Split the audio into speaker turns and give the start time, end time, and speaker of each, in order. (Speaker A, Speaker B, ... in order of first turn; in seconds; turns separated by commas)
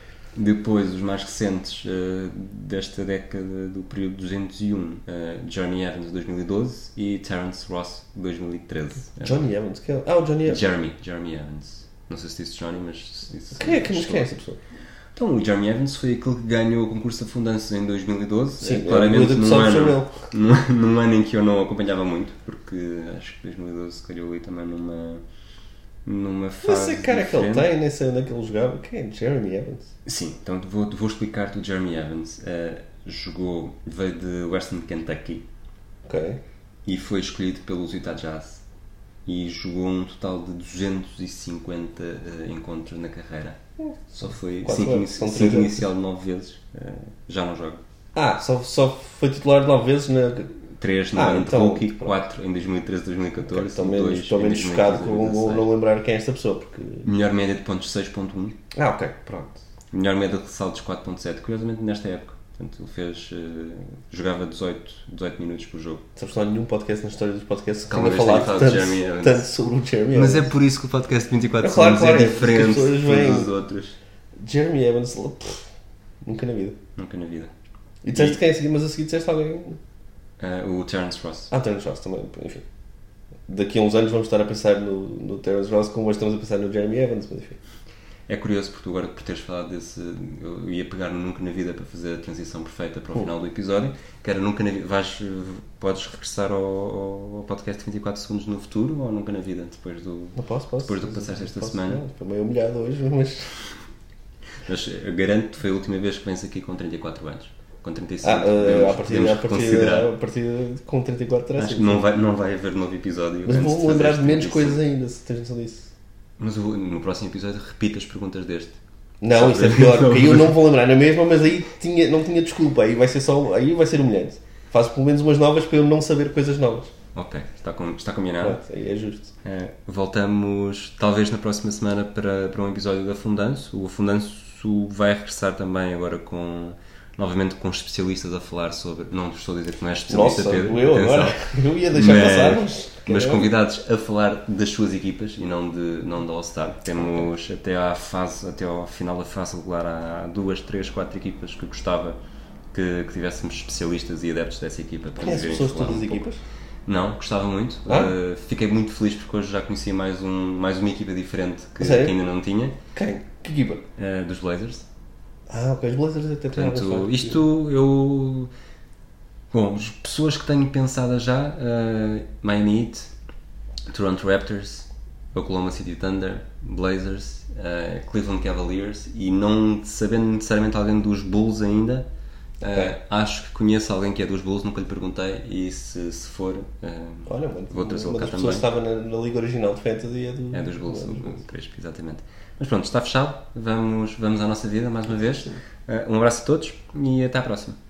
Speaker A: 0.3-9.4, Speaker B: 9.2-10.6, Speaker A: 10.4-14.4, Speaker B: 13.6-14.6, Speaker A: 15.1-25.2, Speaker B: 18.6-20.3, Speaker A: 26.1-27.7, Speaker B: 26.6-29.9, Speaker A: 30.1-35.5, Speaker B: 36.1-36.4, Speaker A: 36.9-38.6, Speaker A: 39.2-43.6, Speaker B: 43.8-45.8, Speaker A: 44.2-47.8, Speaker B: 48.1-50.5, Speaker A: 50.8-55.7, Speaker B: 51.1-52.2, Speaker B: 53.4-57.1, Speaker A: 57.0-58.6, Speaker B: 58.7-59.6, Speaker A: 59.9-66.0, Speaker B: 66.2-70.5, Speaker A: 67.9-69.5, Speaker A: 70.1-74.0, Speaker B: 71.6-73.5, Speaker B: 74.4-75.7, Speaker B: 76.2-76.8, Speaker A: 77.0-77.5, Speaker B: 78.0-79.8, Speaker A: 80.4-81.5, Speaker B: 81.5-82.6, Speaker B: 83.5-87.6, Speaker A: 88.3-102.0, Speaker B: 100.4-103.5, Speaker A: 104.6-110.1, Speaker B: 108.2-112.1, Speaker A: 111.5-114.8, Speaker B: 113.4-115.9, Speaker A: 116.4-118.8, Speaker B: 119.2-126.9, Speaker A: 119.3-120.6, Speaker A: 127.1-128.6, Speaker B: 128.4-129.3, Speaker A: 129.4-152.2, Speaker B: 140.1-143.4, Speaker A: 152.7-156.2, Speaker B: 155.2-156.4, Speaker A: 156.9-162.8, Speaker B: 157.9-158.1, Speaker B: 161.8-162.2, Speaker B: 162.9-163.8, Speaker A: 164.0-164.9, Speaker B: 165.5-167.4, Speaker A: 166.5-168.5, Speaker A: 169.5-173.1, Speaker A: 173.9-182.1, Speaker A: 182.6-188.7, Speaker B: 187.3-191.4, Speaker A: 190.5-197.8